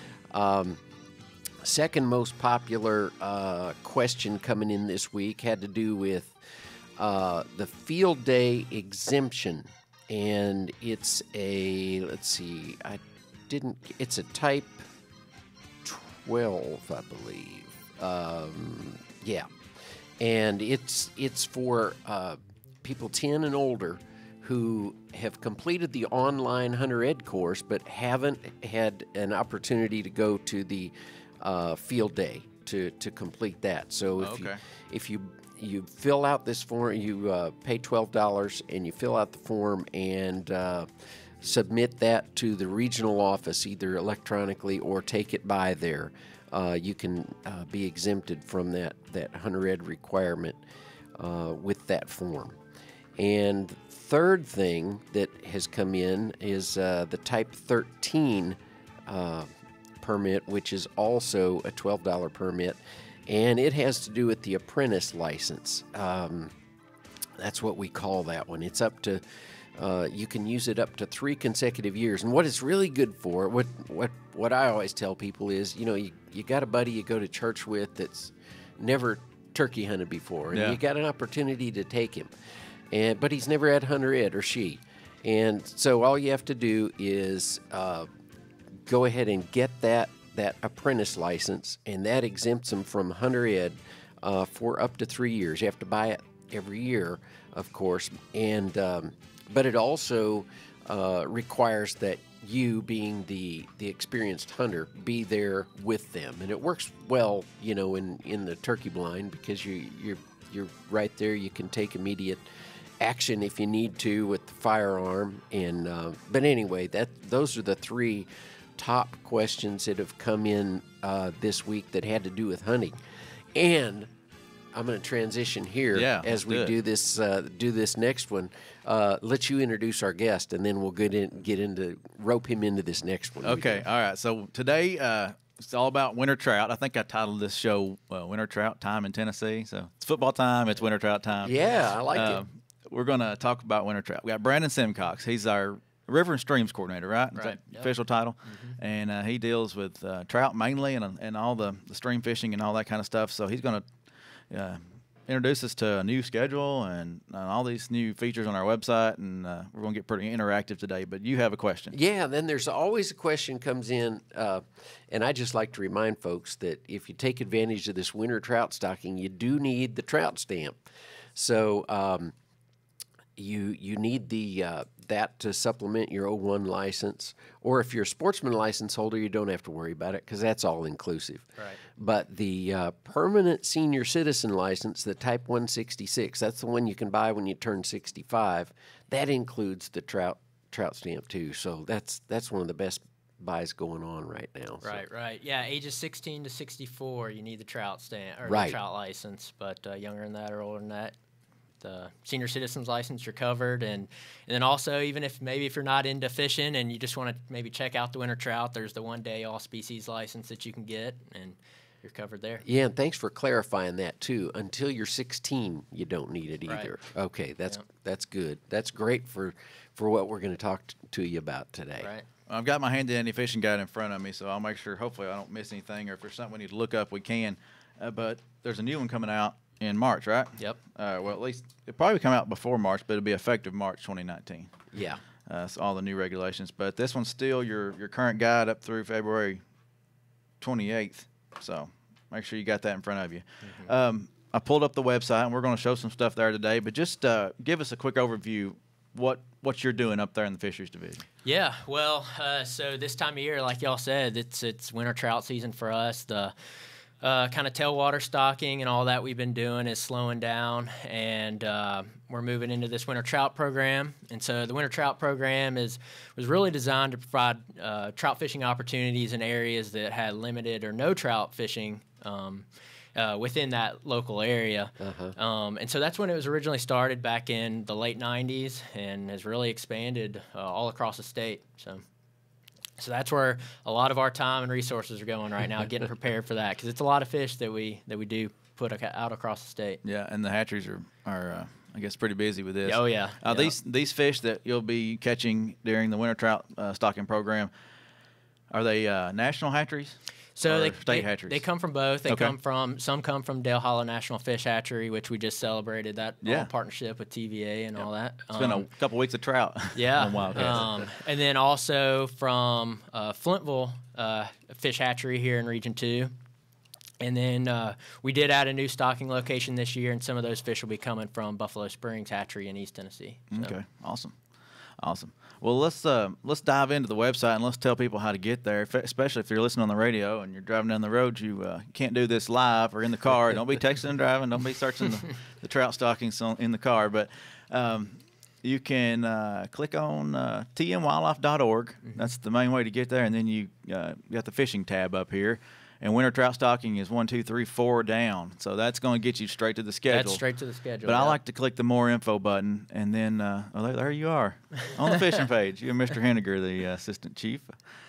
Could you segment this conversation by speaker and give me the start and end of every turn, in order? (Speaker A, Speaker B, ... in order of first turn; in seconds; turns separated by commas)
Speaker A: 0.3-0.8, Speaker A: 1.6-6.4, Speaker A: 7.0-14.8, Speaker A: 15.8-19.5, Speaker A: 20.2-50.6, Speaker B: 34.2-34.6, Speaker A: 51.2-52.6, Speaker A: 53.2-59.5, Speaker A: 60.0-66.5, Speaker A: 67.4-69.2, Speaker A: 69.8-82.3, Speaker B: 80.5-80.8, Speaker A: 82.9-88.1, Speaker A: 88.9-112.4, Speaker A: 113.0-124.1, Speaker A: 124.7-133.9, Speaker B: 125.9-126.7, Speaker B: 133.4-141.6, Speaker A: 141.4-142.4, Speaker B: 142.1-153.8, Speaker C: 147.3-147.9, Speaker C: 148.5-148.8, Speaker B: 154.5-162.0, Speaker A: 161.9-170.8, Speaker A: 171.3-172.3, Speaker A: 173.4-195.0, Speaker C: 194.8-201.2, Speaker A: 198.4-198.8, Speaker C: 201.8-212.6, Speaker A: 212.6-222.1, Speaker C: 216.7-216.9, Speaker C: 222.0-222.3, Speaker B: 222.5-234.7, Speaker A: 234.9-235.2, Speaker B: 235.5-239.6, Speaker B: 240.6-251.2, Speaker C: 243.6-243.9, Speaker C: 251.4-256.5, Speaker C: 257.2-282.0, Speaker A: 275.0-275.4, Speaker C: 283.0-290.0, Speaker B: 290.0-297.7, Speaker C: 292.9-293.7, Speaker B: 298.7-301.6, Speaker C: 300.6-308.9, Speaker B: 302.3-302.5, Speaker B: 306.4-306.7, Speaker B: 308.5-311.0, Speaker C: 309.9-316.3, Speaker C: 317.2-323.8, Speaker B: 323.5-324.4, Speaker B: 325.0-350.4, Speaker C: 350.1-351.4, Speaker B: 351.1-357.8